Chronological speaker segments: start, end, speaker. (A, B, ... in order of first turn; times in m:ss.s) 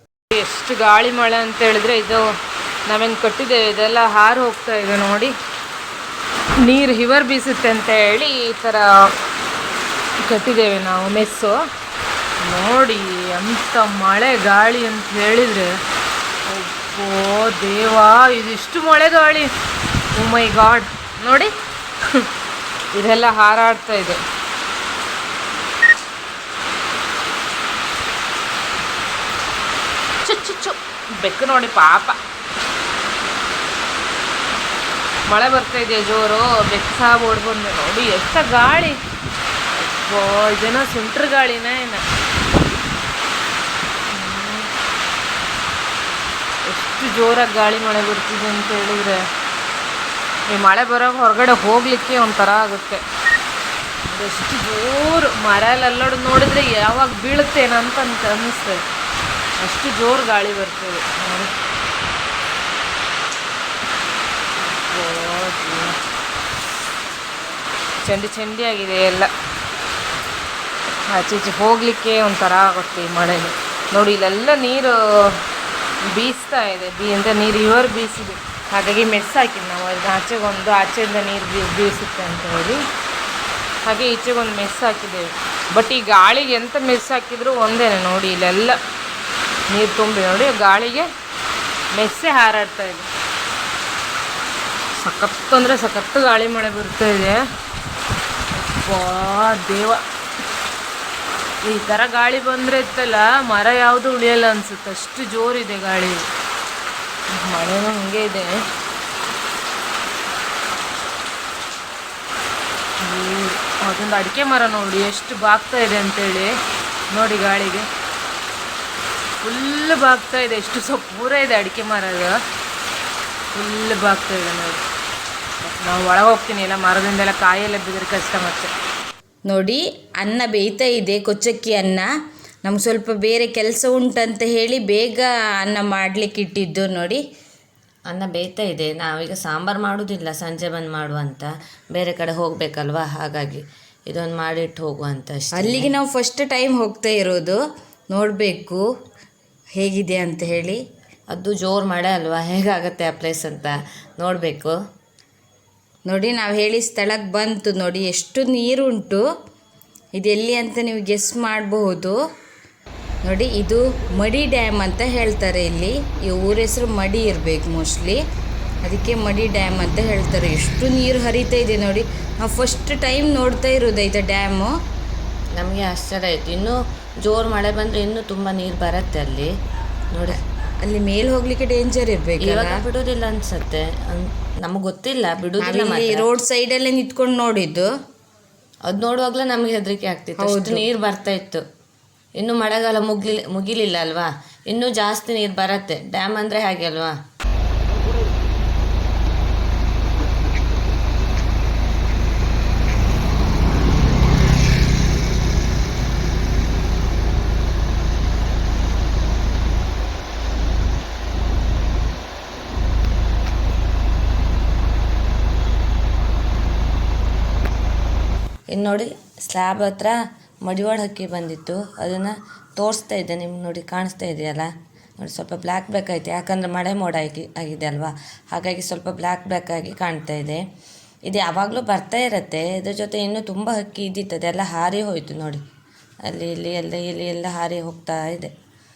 0:00.3-0:02.3 A
0:02.9-0:05.3 A
0:06.6-0:09.1 A
0:10.2-0:11.6 A
0:12.4-0:15.8 A
0:16.5-0:19.5 A
0:20.2-0:21.5 A
0:22.9-0:24.2 A
0:30.2-0:32.2 A
0:35.3-0:39.0 A
0:39.8-0:42.0 A
0:44.1-0:44.7 A
0:46.7-0:49.2 A
0:50.5-0:53.0 A
0:54.1-0:58.8 A
0:59.6-1:01.5 A
1:04.6-1:06.0 A
1:08.0-1:09.3 A
1:11.1-1:15.4 A
1:16.1-1:22.8 A
1:23.8-1:28.8 A
1:29.7-1:31.1 A
1:32.0-1:33.1 A
1:35.0-1:37.4 A
1:38.6-1:40.0 A
1:41.6-1:46.3 A
1:47.4-1:48.6 A
1:53.0-1:56.6 A
1:57.1-1:57.9 A
1:59.4-2:02.4 A
2:03.5-2:04.8 A
2:05.6-2:08.7 A
2:09.5-2:12.1 B
2:12.6-2:17.2 B
2:18.1-2:25.9 C
2:25.6-2:27.6 B
2:28.1-2:28.8 B
2:29.8-2:30.8 B
2:31.3-2:34.8 C
2:36.1-2:39.2 B
2:40.2-2:42.2 B
2:43.2-2:48.2 B
2:48.8-2:54.7 B
2:55.6-2:59.5 C
3:00.1-3:00.4 C
3:00.8-3:02.8 B
3:02.4-3:06.3 C
3:05.6-3:07.9 B
3:08.9-3:11.6 C
3:10.4-3:10.9 B
3:12.4-3:17.2 C
3:38.7-3:50.6 C
3:51.3-3:55.6 C
3:56.3-3:58.5 C